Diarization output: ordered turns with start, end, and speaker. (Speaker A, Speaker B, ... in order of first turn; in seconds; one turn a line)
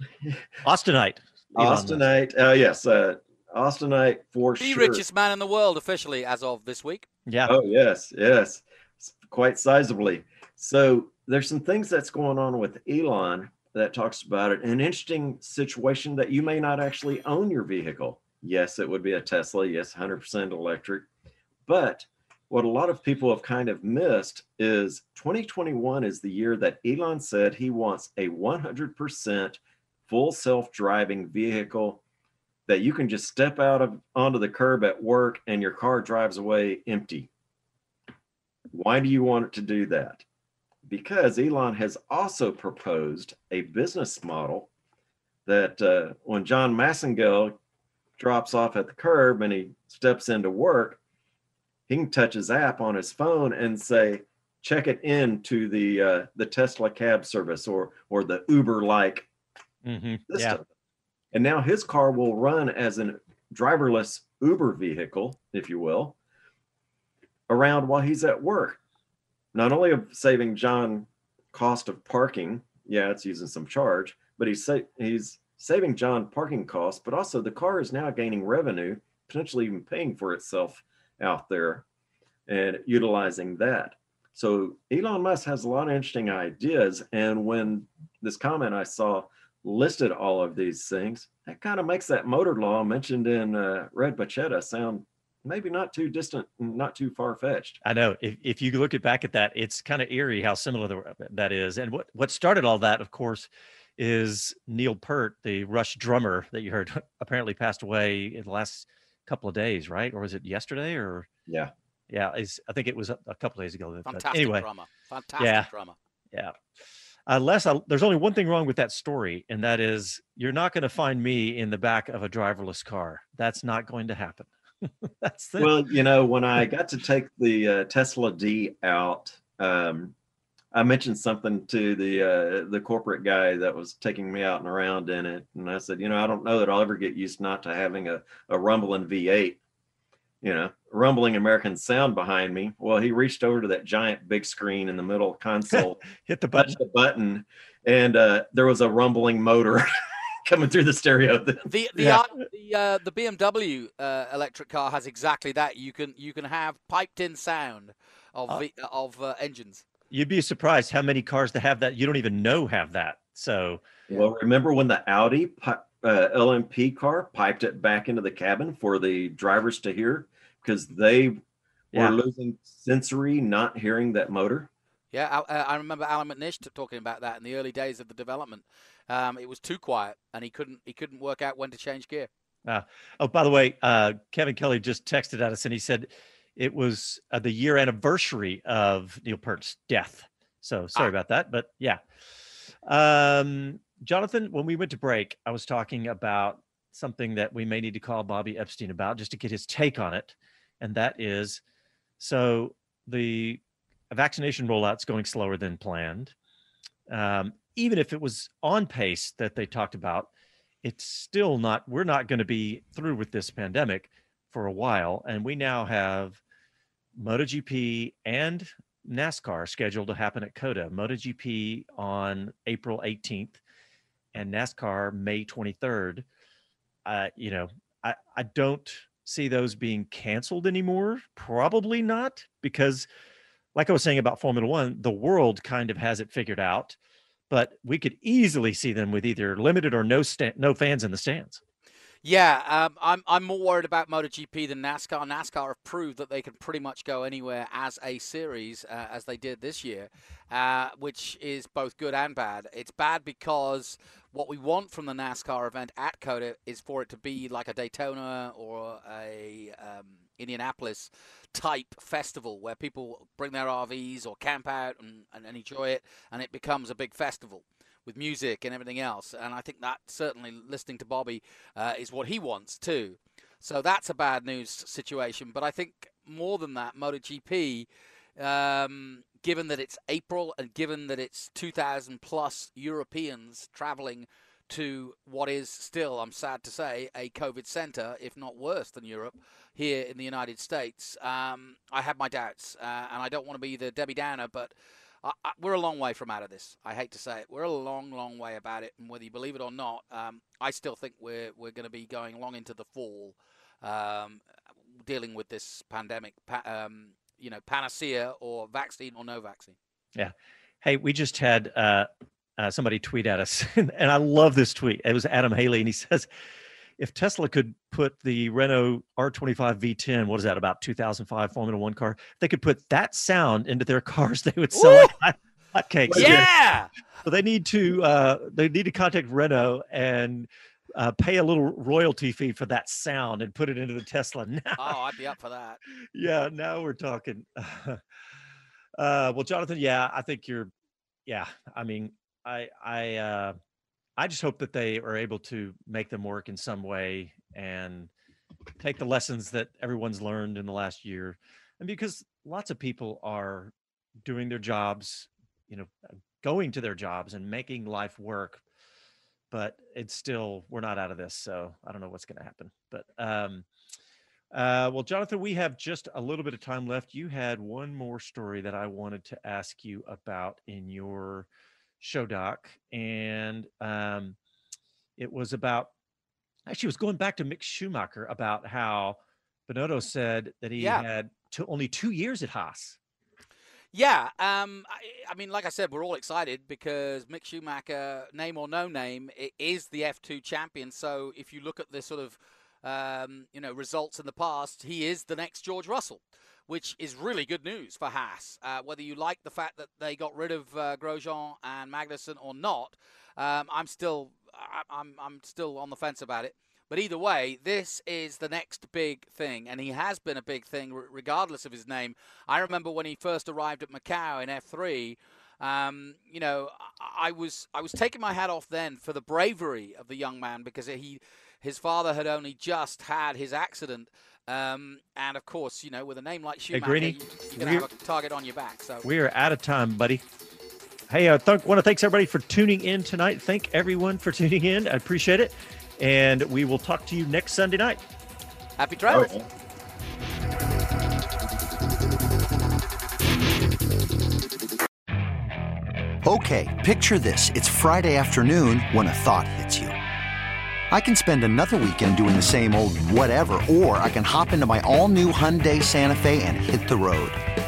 Speaker A: 0.6-2.0
Speaker B: 1.6-5.0
Speaker C: 4.6-7.0
Speaker A: 7.3-7.5
Speaker B: 7.5-21.1
Speaker B: 21.7-32.0
Speaker B: 32.7-37.3
Speaker B: 38.7-40.2
Speaker B: 40.9-44.7
Speaker B: 45.5-47.6
Speaker B: 48.2-51.0
Speaker B: 51.9-59.3
Speaker A: 59.8-60.6
Speaker B: 60.3-60.6
Speaker B: 61.3-66.1
Speaker B: 67.5-68.8
Speaker B: 69.5-81.8
Speaker B: 82.5-97.8
Speaker A: 97.8-111.3
Speaker A: 112.1-114.7
Speaker C: 114.1-116.0
Speaker A: 115.4-115.7
Speaker A: 117.3-125.7
Speaker B: 125.6-130.1
Speaker B: 130.7-139.6
Speaker B: 140.4-149.9
Speaker A: 145.7-146.8
Speaker B: 150.4-151.7
Speaker C: 151.7-159.8
Speaker A: 152.0-152.2
Speaker A: 160.1-163.8
Speaker B: 164.1-171.4
Speaker B: 171.9-174.7
Speaker C: 175.1-182.3
Speaker A: 182.7-192.0
Speaker A: 192.8-201.6
Speaker A: 202.2-206.3
Speaker A: 207.1-210.3
Speaker A: 210.8-216.4
Speaker A: 217.2-223.6
Speaker A: 224.3-226.2
Speaker A: 227.1-233.1
Speaker A: 233.7-236.9
Speaker A: 237.5-241.6
Speaker C: 242.2-277.9
Speaker C: 278.4-304.4
Speaker C: 305.1-309.8
Speaker A: 310.1-316.3
Speaker A: 317.0-326.5
Speaker C: 324.7-325.1
Speaker C: 326.1-326.9
Speaker A: 327.2-335.0
Speaker C: 334.8-335.8
Speaker A: 336.1-338.0
Speaker A: 339.0-340.7
Speaker A: 341.2-343.6
Speaker A: 344.2-348.1
Speaker A: 348.8-353.7
Speaker A: 354.2-355.9
Speaker A: 356.4-358.6
Speaker A: 359.5-363.6
Speaker A: 364.5-371.5
Speaker A: 372.0-374.4
Speaker A: 375.2-375.9
Speaker A: 376.7-383.0
Speaker C: 380.8-381.1
Speaker C: 383.9-429.0
Speaker A: 426.7-427.9
Speaker A: 429.0-430.2
Speaker A: 431.1-438.0
Speaker C: 438.8-439.3
Speaker B: 439.1-439.4
Speaker D: 446.2-449.9
Speaker D: 450.9-457.4